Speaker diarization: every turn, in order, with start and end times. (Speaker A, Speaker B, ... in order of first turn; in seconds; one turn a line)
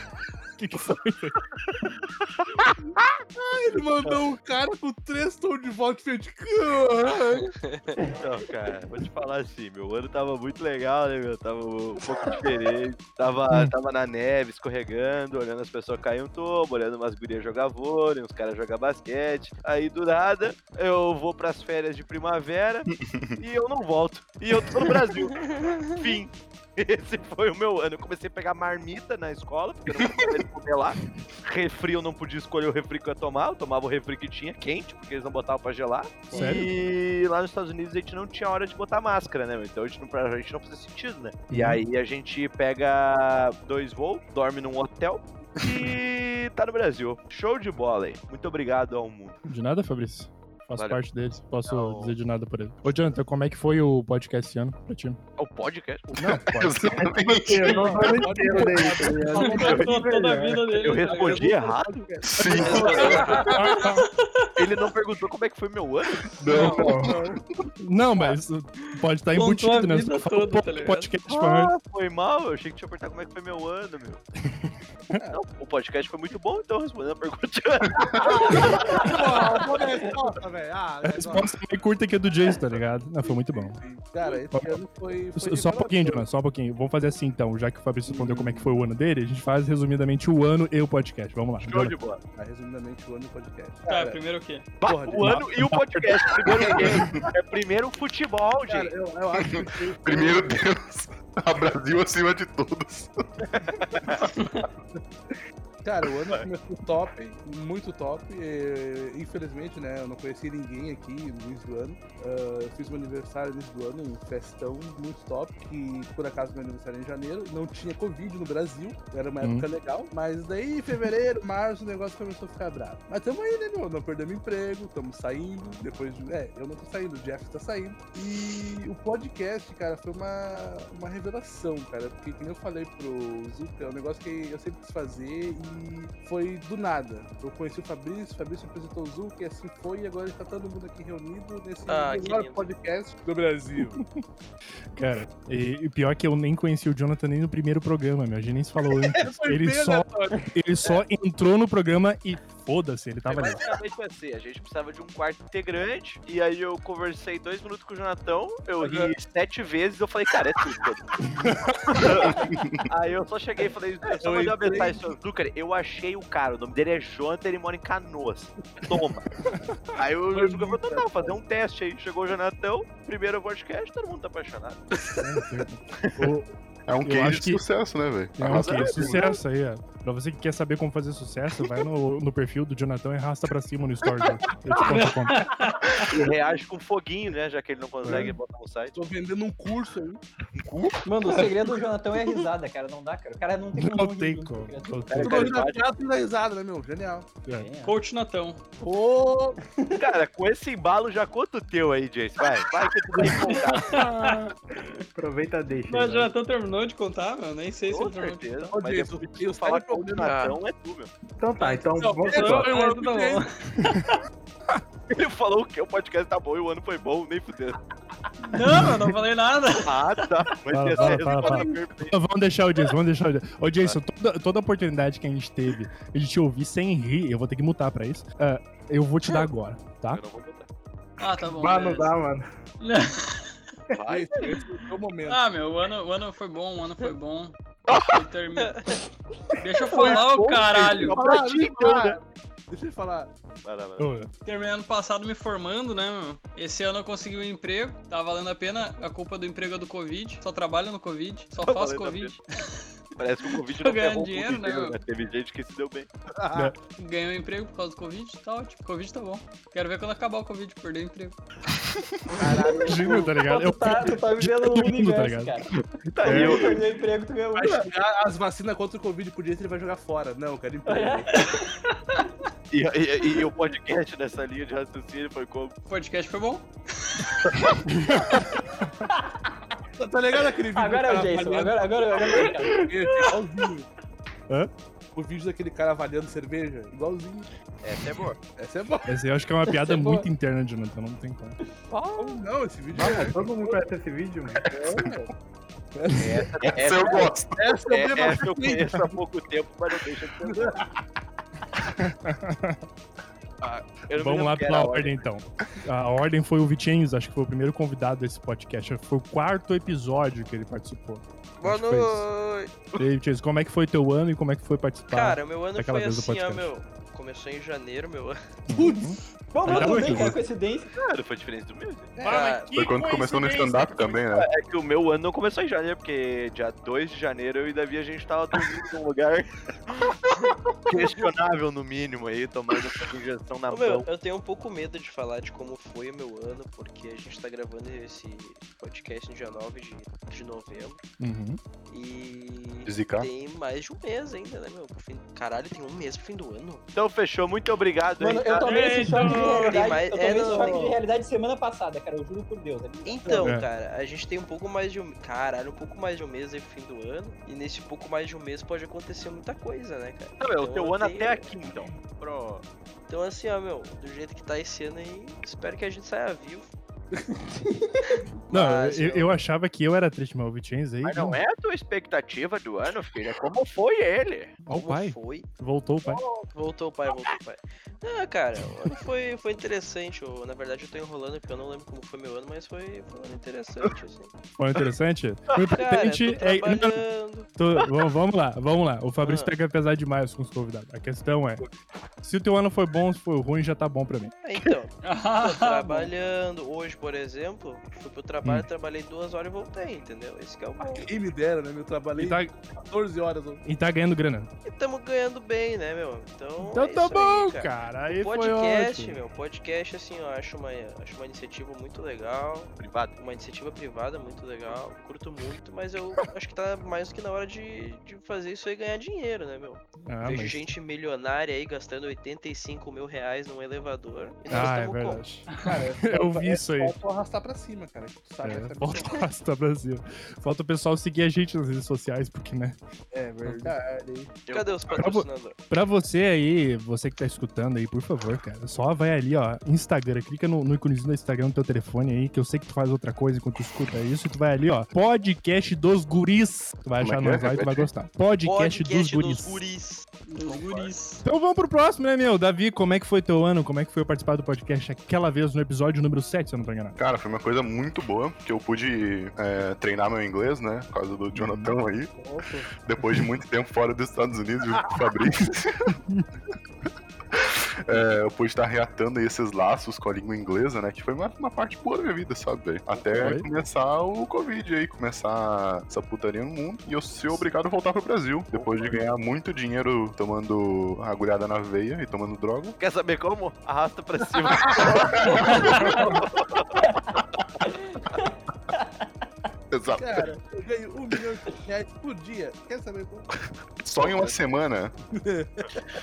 Speaker A: 0.6-1.5
Speaker B: 3.4-7.5
Speaker C: 8.2-49.4
Speaker D: 22.9-23.4
Speaker A: 36.3-36.7
Speaker B: 36.4-36.6
Speaker A: 41.5-41.8
Speaker A: 49.5-55.2
Speaker C: 51.6-52.1
Speaker C: 55.4-56.3
Speaker A: 56.2-57.1
Speaker D: 56.3-58.1
Speaker E: 57.1-60.7
Speaker B: 57.7-60.1
Speaker F: 59.3-61.6
Speaker C: 59.5-59.9
Speaker C: 60.8-63.6
Speaker B: 60.9-63.9
Speaker D: 62.3-63.2
Speaker F: 63.0-64.5
Speaker A: 63.4-64.0
Speaker C: 64.6-66.3
Speaker D: 66.4-67.4
Speaker E: 66.5-67.2
Speaker B: 66.5-67.4
Speaker A: 67.8-71.7
Speaker F: 69.3-71.1
Speaker C: 71.3-74.2
Speaker A: 74.5-75.2
Speaker C: 75.3-79.6
Speaker B: 78.2-81.6
Speaker A: 81.0-83.8
Speaker B: 83.2-86.3
Speaker A: 84.5-84.8
Speaker A: 85.4-92.0
Speaker B: 88.1-88.9
Speaker C: 91.6-92.2
Speaker B: 92.3-94.2
Speaker F: 93.9-94.8
Speaker B: 94.8-95.5
Speaker C: 94.8-98.9
Speaker A: 95.2-96.8
Speaker B: 96.5-97.3
Speaker B: 98.7-100.6
Speaker D: 99.3-103.2
Speaker C: 103.5-104.3
Speaker F: 104.2-104.7
Speaker B: 105.8-144.0
Speaker A: 119.4-119.7
Speaker G: 141.9-142.7
Speaker A: 143.8-144.2
Speaker A: 145.0-153.6
Speaker B: 148.9-150.5
Speaker C: 153.3-169.3
Speaker B: 158.8-159.1
Speaker A: 161.4-161.8
Speaker B: 164.1-165.1
Speaker C: 169.9-174.8
Speaker B: 170.3-171.4
Speaker A: 175.2-176.5
Speaker C: 176.0-176.3
Speaker D: 176.9-179.3
Speaker A: 177.0-177.6
Speaker A: 178.4-185.5
Speaker C: 178.5-179.3
Speaker F: 184.8-186.3
Speaker C: 185.8-189.0
Speaker A: 188.0-188.3
Speaker B: 188.1-188.3
Speaker B: 188.9-190.2
Speaker C: 190.5-191.0
Speaker H: 191.0-195.2
Speaker F: 191.3-191.7
Speaker A: 193.8-195.5
Speaker C: 195.1-195.8
Speaker B: 195.2-197.3
Speaker A: 197.5-197.7
Speaker H: 197.5-198.0
Speaker F: 197.8-198.6
Speaker B: 198.8-199.6
Speaker C: 199.9-204.0
Speaker F: 203.2-204.9
Speaker B: 203.2-204.1
Speaker E: 205.2-206.3
Speaker F: 205.9-208.6
Speaker C: 207.9-211.1
Speaker B: 208.7-210.4
Speaker G: 210.2-210.6
Speaker E: 211.4-212.8
Speaker F: 211.6-214.2
Speaker B: 212.0-213.5
Speaker C: 215.1-217.8
Speaker F: 218.4-220.3
Speaker A: 218.7-219.1
Speaker C: 219.8-222.2
Speaker A: 220.7-230.2
Speaker B: 221.0-221.8
Speaker C: 230.1-230.7
Speaker F: 231.2-232.2
Speaker E: 231.2-232.5
Speaker F: 232.8-233.6
Speaker C: 233.9-234.7
Speaker B: 234.1-235.5
Speaker F: 235.3-239.0
Speaker C: 237.9-238.2
Speaker F: 239.6-241.2
Speaker B: 239.9-243.3
Speaker C: 240.5-242.2
Speaker C: 243.6-244.1
Speaker A: 244.0-244.3
Speaker F: 244.4-252.8
Speaker C: 251.6-252.3
Speaker C: 253.2-256.1
Speaker F: 253.4-255.0
Speaker B: 256.4-256.7
Speaker F: 256.9-261.4
Speaker B: 262.4-263.3
Speaker H: 262.4-265.7
Speaker A: 262.9-265.6
Speaker C: 266.0-266.8
Speaker H: 266.2-267.9
Speaker A: 266.2-266.6
Speaker B: 267.6-271.5
Speaker H: 270.9-271.7
Speaker C: 272.7-275.8
Speaker F: 275.9-277.6
Speaker A: 277.8-278.5
Speaker B: 280.0-283.9
Speaker H: 280.7-283.0
Speaker B: 285.1-287.5
Speaker C: 287.8-288.4
Speaker B: 288.6-289.2
Speaker A: 289.1-291.6
Speaker H: 289.6-290.3
Speaker C: 291.9-292.4
Speaker B: 292.2-293.8
Speaker E: 292.9-294.7
Speaker B: 294.7-295.3
Speaker B: 295.9-299.2
Speaker C: 296.1-300.9
Speaker D: 296.6-297.6
Speaker B: 300.4-300.9
Speaker A: 301.9-302.8
Speaker C: 303.6-305.2
Speaker A: 304.1-312.3
Speaker G: 311.6-312.7
Speaker A: 313.0-316.7
Speaker G: 315.1-318.4
Speaker A: 318.7-320.4
Speaker B: 318.7-319.2
Speaker H: 319.5-320.9
Speaker C: 320.9-322.1
Speaker B: 322.1-322.6
Speaker A: 322.2-324.2
Speaker G: 322.3-322.7
Speaker D: 322.7-324.5
Speaker C: 324.4-330.2
Speaker C: 330.9-334.1
Speaker G: 333.7-341.0
Speaker A: 341.2-341.6
Speaker G: 341.9-346.8
Speaker D: 342.9-343.3
Speaker C: 346.9-348.9
Speaker H: 348.2-353.5
Speaker F: 348.6-349.9
Speaker A: 349.0-349.4
Speaker G: 349.5-351.0
Speaker F: 350.5-350.8
Speaker G: 353.0-361.5
Speaker C: 360.4-362.6
Speaker G: 363.1-366.7
Speaker H: 367.5-368.1
Speaker G: 368.5-369.3
Speaker A: 368.5-371.4
Speaker C: 371.0-374.6
Speaker A: 374.7-376.2
Speaker G: 374.7-375.5
Speaker C: 376.1-376.5
Speaker G: 376.4-384.3
Speaker A: 384.6-387.0
Speaker G: 385.8-387.5
Speaker A: 387.6-391.6
Speaker G: 389.2-389.5
Speaker A: 392.2-394.3
Speaker G: 394.4-401.1
Speaker F: 395.0-396.1
Speaker B: 400.8-403.6
Speaker A: 402.2-402.6
Speaker A: 403.6-404.5
Speaker G: 404.6-425.2
Speaker A: 406.6-409.2
Speaker C: 412.8-413.2
Speaker A: 420.1-420.7
Speaker A: 424.5-426.9
Speaker B: 425.6-429.3
Speaker A: 428.4-432.8
Speaker B: 433.1-434.3
Speaker A: 433.4-433.8
Speaker C: 434.5-434.8
Speaker G: 434.5-435.6
Speaker A: 434.9-449.6
Speaker D: 447.0-447.9
Speaker G: 448.4-450.9
Speaker F: 450.3-451.2
Speaker A: 451.2-457.0
Speaker D: 457.0-462.1
Speaker A: 461.3-461.7
Speaker E: 462.1-462.7
Speaker D: 462.8-465.9
Speaker A: 465.9-466.3
Speaker D: 467.3-482.8
Speaker A: 473.1-473.5
Speaker C: 478.5-479.0
Speaker C: 482.8-486.9
Speaker B: 484.6-485.0
Speaker D: 485.1-486.0
Speaker F: 485.5-486.0
Speaker H: 486.8-488.9
Speaker D: 489.7-490.4
Speaker B: 490.0-493.3
Speaker D: 493.8-494.9
Speaker B: 495.2-495.8